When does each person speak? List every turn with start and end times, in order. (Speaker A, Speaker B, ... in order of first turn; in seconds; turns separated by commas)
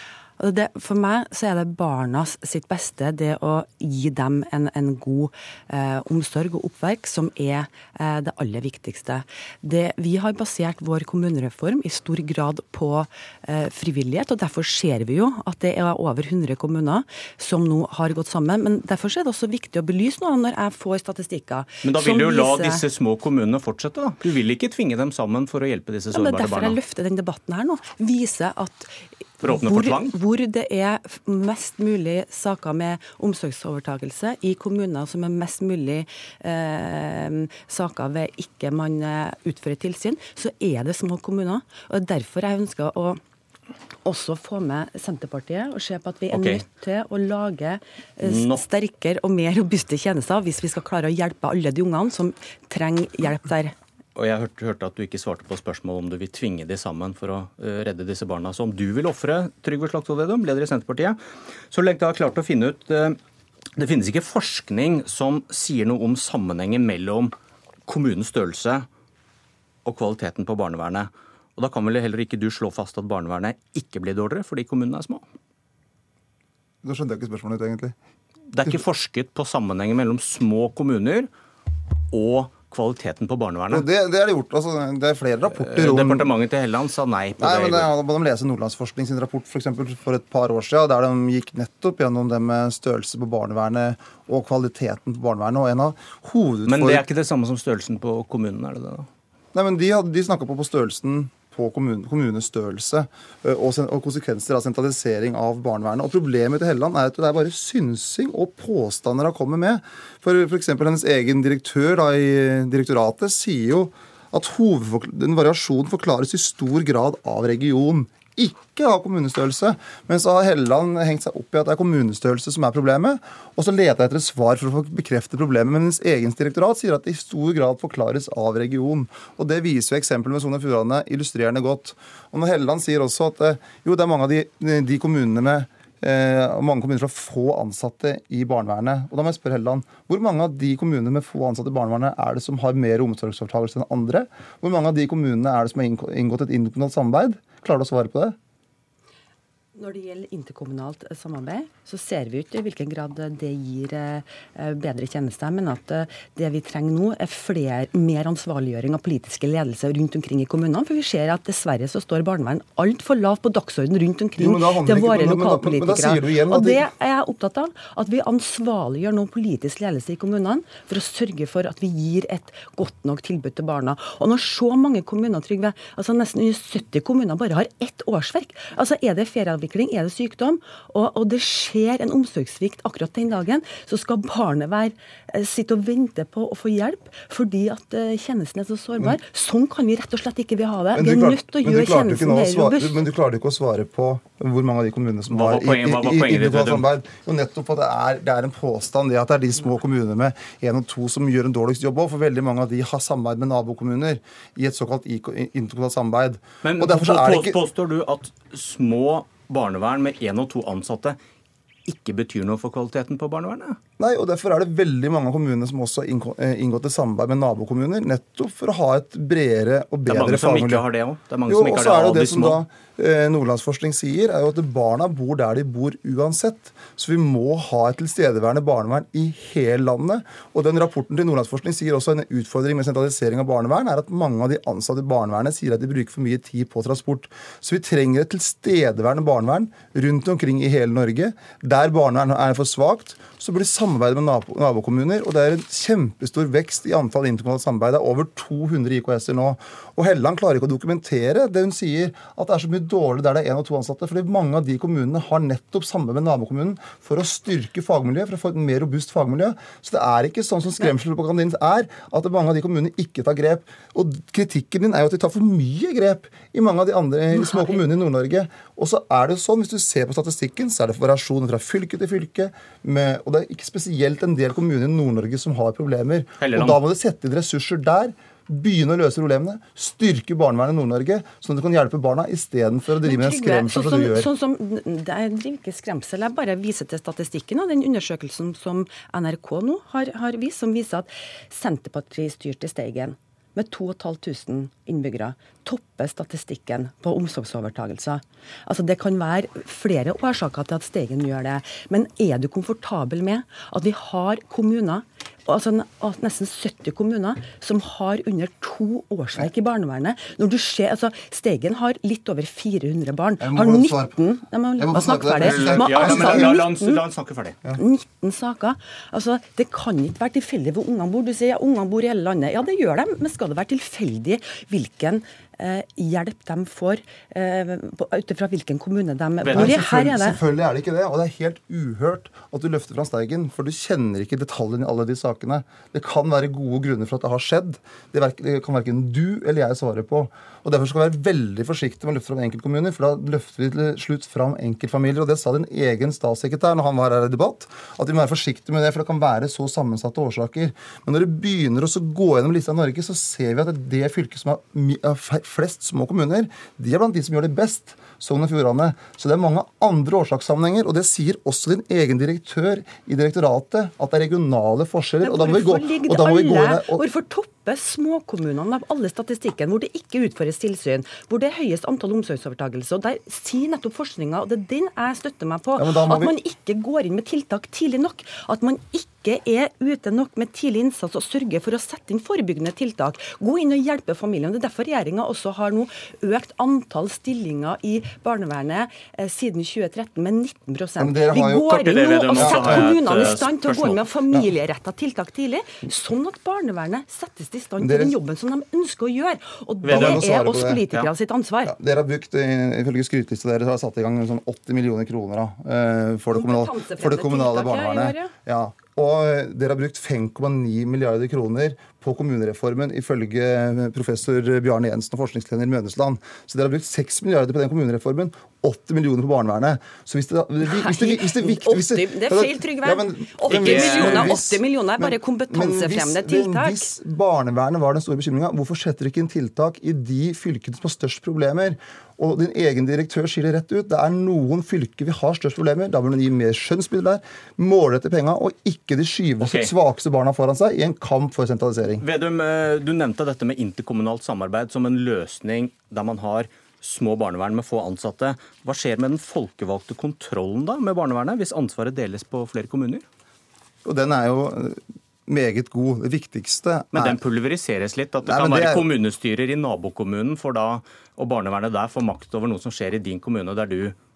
Speaker A: 0.4-22.8, Speaker B: 21.8-26.8, Speaker A: 26.1-43.2, Speaker B: 29.4-30.1, Speaker A: 44.0-53.8, Speaker B: 46.3-46.6, Speaker B: 48.2-48.6, Speaker B: 54.1-61.2, Speaker B: 61.7-63.2, Speaker B: 63.8-67.3, Speaker B: 67.9-68.9, Speaker B: 69.8-75.2, Speaker C: 76.8-77.9, Speaker B: 78.5-81.3, Speaker B: 82.1-83.9, Speaker C: 83.7-86.3, Speaker B: 85.6-87.9, Speaker C: 87.4-97.0, Speaker B: 96.7-99.1, Speaker C: 99.5-148.3, Speaker A: 149.8-193.1, Speaker C: 164.4-166.8, Speaker C: 190.9-207.6, Speaker B: 195.3-196.9, Speaker B: 206.6-211.2, Speaker B: 211.9-213.8, Speaker C: 214.0-220.8, Speaker B: 220.1-222.6, Speaker C: 221.5-284.3, Speaker B: 276.4-276.8, Speaker A: 283.0-317.0, Speaker C: 313.4-314.2, Speaker C: 314.8-316.6, Speaker B: 315.4-317.6, Speaker A: 317.7-330.4, Speaker B: 329.4-329.8, Speaker C: 329.5-367.1, Speaker A: 365.2-401.7, Speaker C: 375.8-376.3, Speaker C: 391.0-391.7, Speaker B: 391.7-394.0, Speaker C: 392.3-392.9, Speaker C: 397.8-398.1, Speaker B: 399.8-400.3, Speaker C: 399.9-400.8, Speaker C: 401.6-442.0, Speaker A: 406.3-408.3, Speaker A: 420.6-426.9, Speaker B: 423.5-424.4, Speaker B: 439.4-439.7, Speaker B: 442.0-453.1, Speaker C: 453.9-457.2, Speaker B: 456.9-463.9, Speaker C: 458.2-458.9